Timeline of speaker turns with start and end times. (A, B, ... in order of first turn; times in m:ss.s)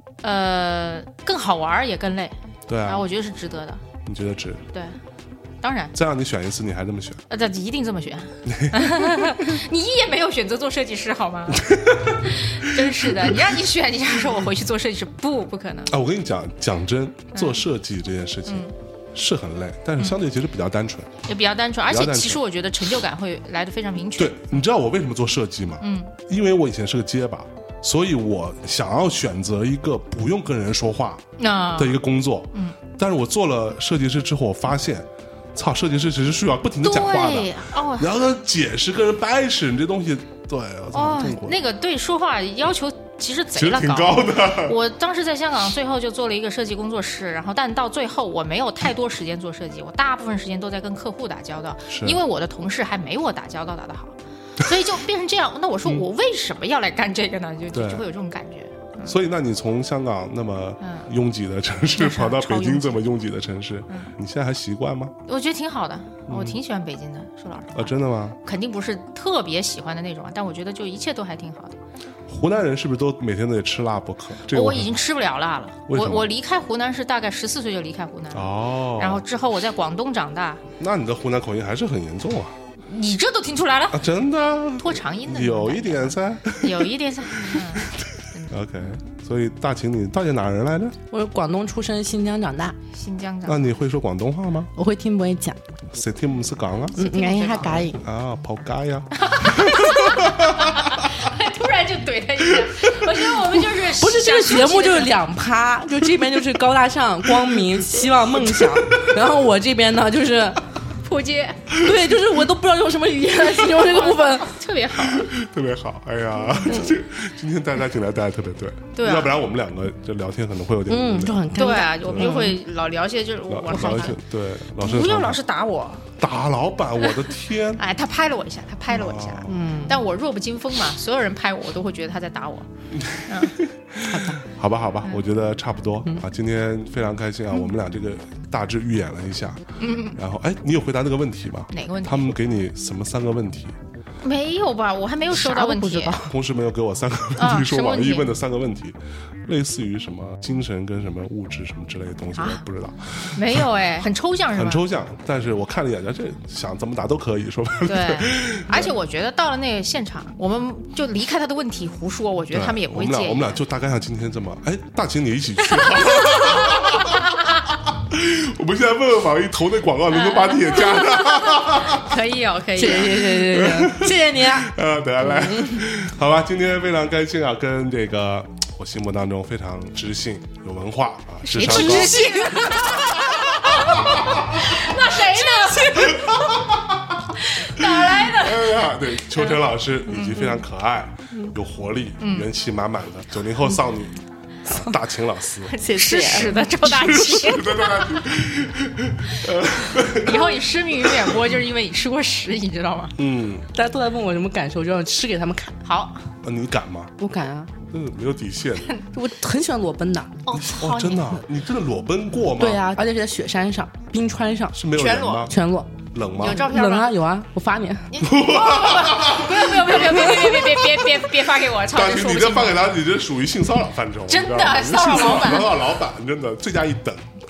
0:00.2-0:03.8 A
0:02.7-0:03.0 B
0:04.0-0:04.6 B
0:05.6-0:05.9 A
0:05.9-0:07.2 B
0:07.3-0:11.7 A
0:08.4-0:09.6 B
0:11.5-0:13.3 B
0:12.2-0:15.9 A
0:15.9-0:21.1 B
0:17.3-0:17.6 A
0:18.4-0:18.7 A
0:21.2-0:24.6 A
0:21.9-0:22.4 B
0:24.2-0:31.2 B
0:25.8-0:26.1 A
0:31.4-0:32.8 A
0:31.8-0:41.6 B
0:36.8-0:38.1 A
0:40.9-0:59.2 A
0:43.5-0:44.8 B
0:51.9-0:52.2 B
0:57.7-0:58.0 B
0:59.0-1:05.1 B
1:00.8-1:01.1 A
1:01.9-1:03.0 A
1:05.3-1:11.8 A
1:06.3-1:06.6 B
1:07.7-1:08.4 B
1:12.3-1:14.9 B
1:14.5-1:20.6 A
1:15.9-1:16.3 B
1:18.3-1:19.2 B
1:20.8-1:22.6 B
1:22.8-1:24.0 A
1:23.9-1:31.0 B
1:24.8-1:28.5 A
1:31.1-1:32.8 C
1:32.9-1:33.7 A
1:33.4-1:34.7 B
1:34.8-1:35.6 C
1:35.9-1:37.0 B
1:36.9-1:38.0 C
1:37.0-1:37.8 A
1:38.0-1:41.0 B
1:39.2-1:45.2 A
1:42.5-1:43.1 B
1:43.7-1:50.6 C
1:47.3-1:49.2 B
1:51.0-1:51.7 A
1:51.7-1:52.1 B
1:51.8-1:54.6 C
1:53.7-1:55.3 A
1:55.0-2:02.5 B
1:56.6-1:56.9 A
1:58.9-1:59.4 A
2:00.9-2:02.6 C
2:01.5-2:04.2 A
2:03.5-2:05.4 B
2:03.7-2:04.0 C
2:04.8-2:06.0 A
2:06.2-2:07.8 B
2:07.8-2:12.7 A
2:08.9-2:09.6 B
2:09.5-2:10.0 C
2:12.9-2:23.8 B
2:13.2-2:13.6 A
2:14.1-2:14.4 C
2:19.8-2:20.2 A
2:21.7-2:22.3 A
2:24.2-2:26.2 A
2:25.3-2:26.3 C
2:26.2-2:33.7 B
2:27.4-2:28.4 A
2:32.4-2:32.6 A
2:33.3-2:34.8 A
2:34.5-2:38.9 B
2:37.8-2:43.6 A
2:42.5-2:52.2 B
2:45.7-2:47.4 A
2:50.1-2:53.3 A
2:52.7-2:55.8 C
2:52.8-3:02.2 B
3:01.4-3:06.6 A
3:01.6-3:03.6 C
3:03.3-3:05.0 B
3:05.1-3:06.2 C
3:05.9-3:21.3 B
3:07.4-3:10.5 A
3:12.2-3:12.5 A
3:14.7-3:14.9 C
3:15.7-3:18.2 A
3:15.8-3:17.4 C
3:20.1-3:23.2 A
3:23.2-3:23.7 B
3:23.7-3:25.8 C
3:25.8-3:26.2 A
3:26.4-3:27.1 B
3:27.2-3:27.8 C
3:27.9-3:28.9 B
3:29.1-3:30.4 C
3:30.4-3:31.4 A
3:30.5-3:32.8 B
3:32.6-3:34.8 C
3:34.7-3:35.5 B
3:34.9-3:35.5 A
3:35.4-3:38.1 C
3:36.1-3:36.7 B
3:36.4-3:37.2 A
3:38.1-3:42.9 A
3:38.2-3:41.2 B
3:39.9-3:40.6 C
3:41.9-3:47.3 B
3:44.3-3:45.8 A